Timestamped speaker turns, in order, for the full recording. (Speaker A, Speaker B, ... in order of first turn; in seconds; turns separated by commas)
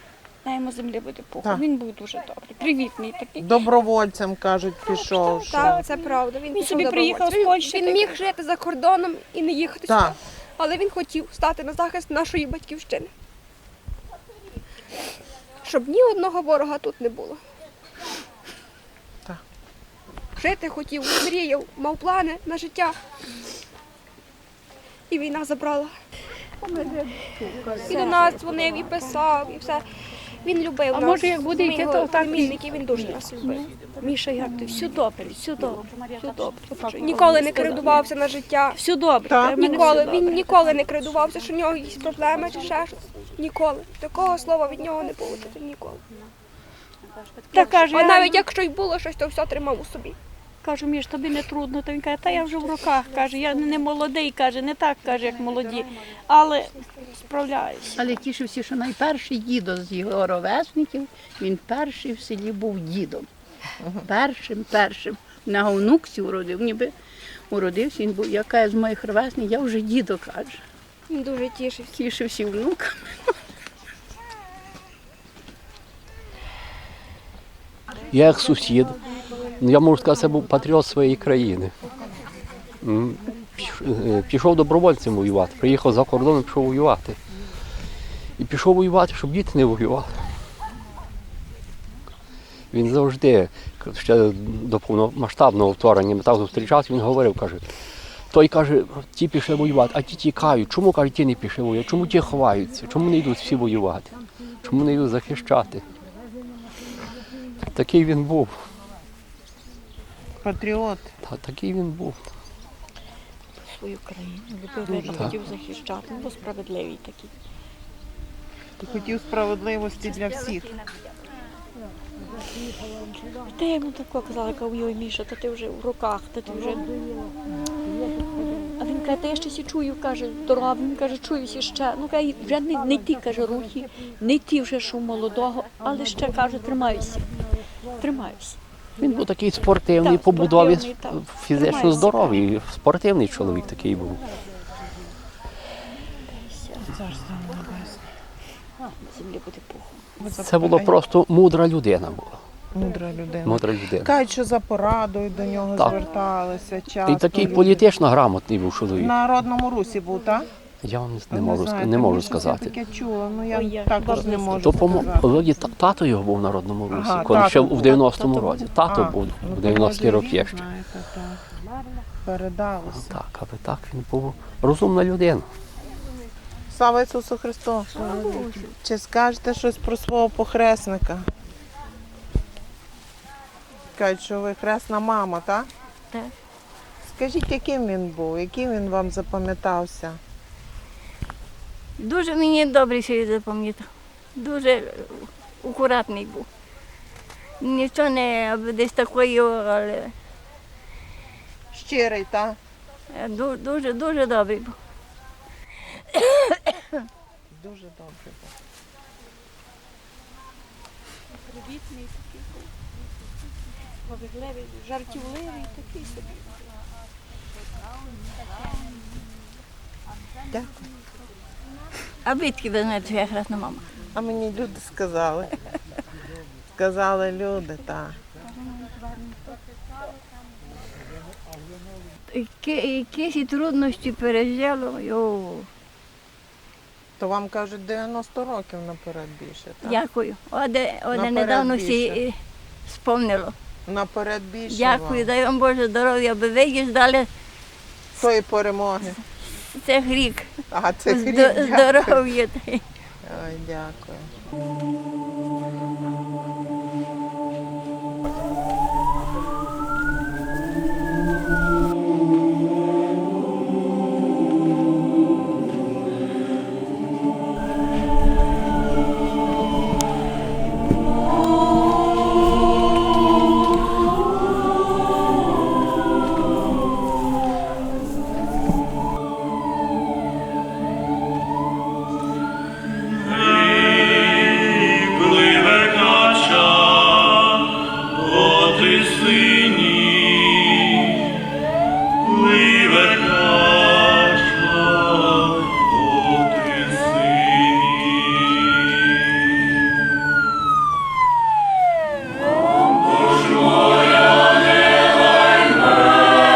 Speaker A: 0.4-3.7, Speaker B: 3.4-5.5, Speaker A: 4.8-8.2, Speaker C: 5.0-13.1, Speaker B: 9.9-10.2, Speaker C: 15.6-17.4, Speaker C: 20.4-22.9, Speaker C: 25.1-25.9, Speaker D: 26.8-27.7, Speaker A: 27.7-28.2, Speaker C: 27.8-29.9, Speaker C: 30.4-33.6, Speaker D: 30.9-33.0, Speaker A: 33.0-38.0, Speaker C: 36.9-38.8, Speaker A: 38.7-40.8, Speaker C: 39.4-46.0, Speaker A: 47.5-48.5, Speaker C: 47.5-50.2, Speaker A: 50.6-58.1, Speaker D: 58.0-63.3, Speaker D: 64.0-66.9, Speaker D: 67.5-70.6, Speaker C: 71.1-72.0, Speaker D: 71.9-73.4, Speaker E: 78.1-79.0, Speaker E: 79.6-81.8, Speaker E: 82.8-87.2, Speaker E: 88.4-90.2, Speaker E: 92.7-97.7, Speaker E: 98.3-104.1, Speaker E: 104.6-105.8, Speaker E: 107.7-108.6, Speaker B: 110.4-111.1, Speaker E: 111.2-112.2, Speaker A: 113.6-117.3, Speaker B: 118.8-120.7, Speaker A: 123.5-126.9, Speaker A: 128.8-137.4, Speaker A: 138.0-138.6, Speaker E: 139.0-144.2, Speaker A: 139.9-142.4, Speaker A: 146.4-146.9, Speaker B: 146.9-148.0, Speaker A: 149.0-150.0, Speaker B: 150.2-151.0, Speaker E: 150.3-152.4, Speaker B: 152.7-157.9, Speaker E: 153.4-154.1, Speaker E: 157.1-159.1, Speaker B: 159.0-160.5, Speaker E: 160.8-162.8, Speaker B: 161.3-165.4, Speaker A: 163.5-165.2, Speaker E: 164.1-170.7, Speaker B: 166.9-168.2, Speaker B: 168.8-171.4, Speaker B: 172.2-173.2, Speaker E: 172.9-175.5, Speaker B: 176.7-181.3, Speaker A: 177.9-178.7, Speaker B: 183.9-185.7, Speaker B: 187.0-190.2, Speaker F: 192.0-196.5, Speaker F: 197.6-200.1, Speaker B: 201.7-202.6, Speaker F: 203.1-204.8, Speaker B: 207.5-208.5, Speaker A: 211.4-212.7, Speaker A: 214.1-216.6, Speaker B: 220.5-220.8, Speaker F: 222.3-223.9, Speaker B: 224.1-225.6, Speaker B: 226.7-228.2, Speaker F: 232.3-235.7, Speaker B: 237.2-239.9, Speaker F: 239.8-243.6, Speaker B: 241.1-242.2, Speaker B: 243.9-245.3, Speaker F: 244.7-247.3, Speaker B: 248.2-249.2, Speaker F: 249.8-252.8, Speaker B: 250.7-252.3, Speaker B: 253.2-254.3, Speaker A: 288.6-289.5, Speaker A: 293.3-294.1